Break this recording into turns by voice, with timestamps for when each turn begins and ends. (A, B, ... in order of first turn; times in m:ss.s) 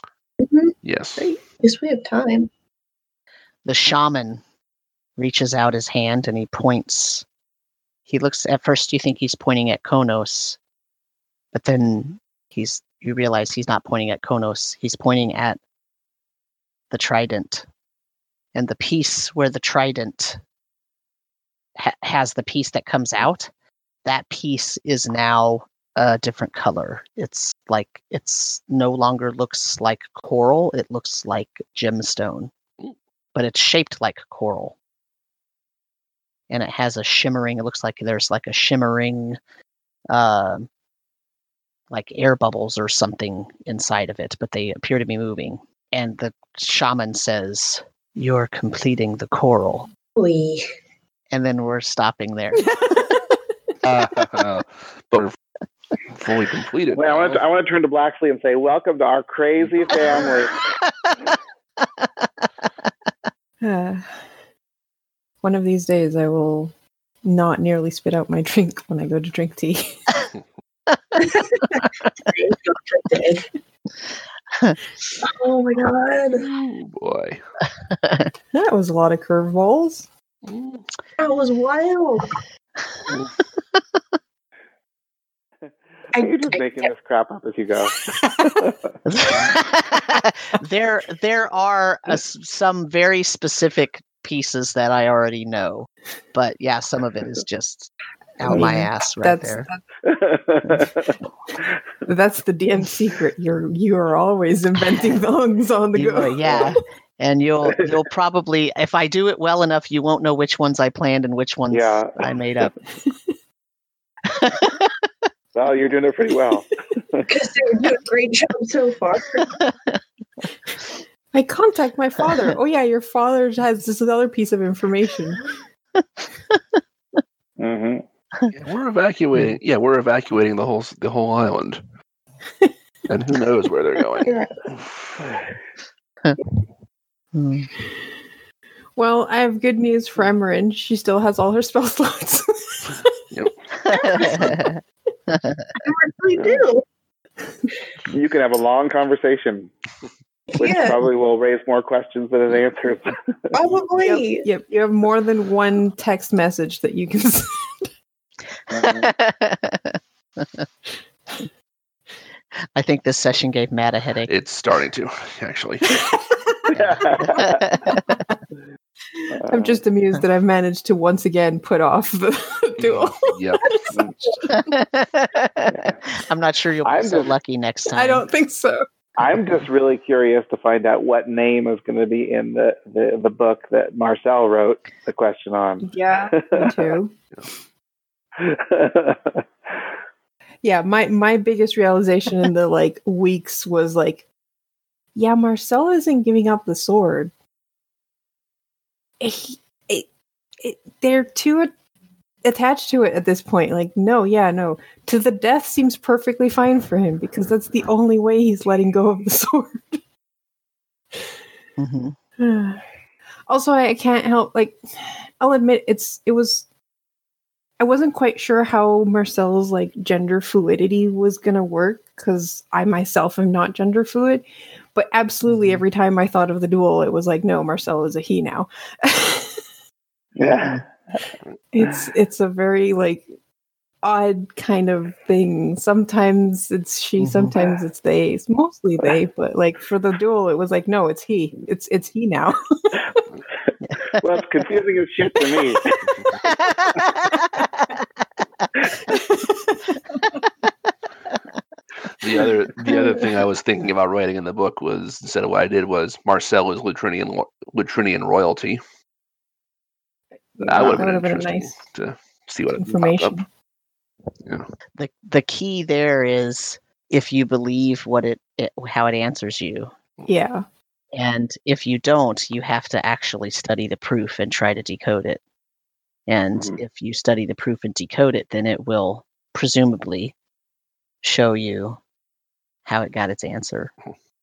0:00.4-0:00.8 A
0:00.8-0:01.3 B
0:01.6-0:02.5 A
0:03.6-0:04.4 C
0:05.2-0:07.2 C
0:08.1-0:10.6 C
0:11.5-0:15.6 C
0:16.9-0:17.7 C
0:18.5-0:20.4 C
0:21.8-0:23.5 C
0:24.0-0:32.5 C
0:33.4-0:34.8 C
0:36.5-0:39.4 C
0:40.1-0:40.7 C
0:41.9-0:49.9 C
0:50.2-0:50.6 A
0:51.3-0:52.7 C
0:52.6-0:53.4 D
0:53.8-0:55.4 B
0:56.2-0:57.4 B
0:56.9-1:00.6 E
1:00.8-1:01.2 C
1:01.8-1:02.3 C
1:03.6-1:04.2 D
1:05.4-1:06.7 D
1:07.2-1:10.1 D
1:11.2-1:13.5 A
1:15.2-1:16.5 A
1:16.4-1:17.4 B
1:17.8-1:18.3 C
1:18.5-1:20.1 D
1:20.5-1:20.8 B
1:21.2-1:22.4 A
1:26.1-1:26.9 A
1:26.2-1:28.9 E
1:29.1-1:39.7 C
1:38.4-1:39.8 D
1:40.0-1:41.2 E
1:42.1-1:46.6 D
1:46.0-1:52.7 C
1:46.4-1:46.8 E
1:51.7-1:52.3 E
1:54.3-1:55.0 C
1:55.6-1:57.3 E
1:57.3-1:59.5 A
1:59.4-2:00.0 C
2:01.3-2:05.5 D
2:06.0-2:06.8 C
2:07.6-2:08.0 E
2:08.5-2:11.8 B
2:13.1-2:15.4 B
2:14.2-2:14.6 A
2:17.3-2:17.7 C
2:19.0-2:23.1 D
2:23.8-2:25.6 C
2:23.9-2:24.6 D
2:25.8-2:26.8 A
2:28.1-2:29.7 E
2:30.5-2:31.0 A
2:30.6-2:33.5 E
2:33.5-2:34.5 A
2:34.0-2:37.9 D
2:38.7-2:39.1 E
2:38.7-2:40.7 C
2:42.8-2:44.3 C
2:44.3-2:46.0 B
2:45.9-2:46.6 D
2:46.7-2:47.7 E
2:47.3-2:48.0 C
2:47.9-2:48.2 D
2:49.2-2:54.6 D
2:49.4-2:49.8 E
2:52.8-2:53.6 B
2:53.9-2:54.2 E
2:54.5-2:58.3 C
2:55.7-2:56.0 E
2:56.8-2:57.3 E
2:57.9-2:58.8 D
2:59.2-3:06.9 E
3:05.8-3:07.1 D
3:08.4-3:09.7 E
3:10.6-3:14.2 D
3:15.2-3:17.3 D
3:19.2-3:20.1 D
3:20.6-3:21.7 D
3:22.4-3:30.0 D
3:31.8-3:32.2 C
3:32.4-3:32.8 D
3:33.5-3:36.7 D
3:37.8-3:49.6 D
3:45.5-3:45.8 C
3:50.4-3:50.8 E
3:50.4-3:50.8 C
3:51.7-3:53.3 D
3:54.0-4:03.2 D
3:57.2-3:57.5 C
4:03.8-4:04.2 C
4:04.2-4:05.9 E
4:06.4-4:08.1 C
4:08.9-4:10.4 D
4:12.2-4:18.8 B
4:20.6-4:21.8 D
4:20.6-4:23.4 B
4:22.7-4:23.5 D
4:25.0-4:29.9 C
4:30.3-4:30.6 D
4:31.1-4:35.4 C
4:36.3-4:40.3 C
4:36.6-4:36.8 E
4:41.2-4:42.0 C
4:42.9-4:43.9 C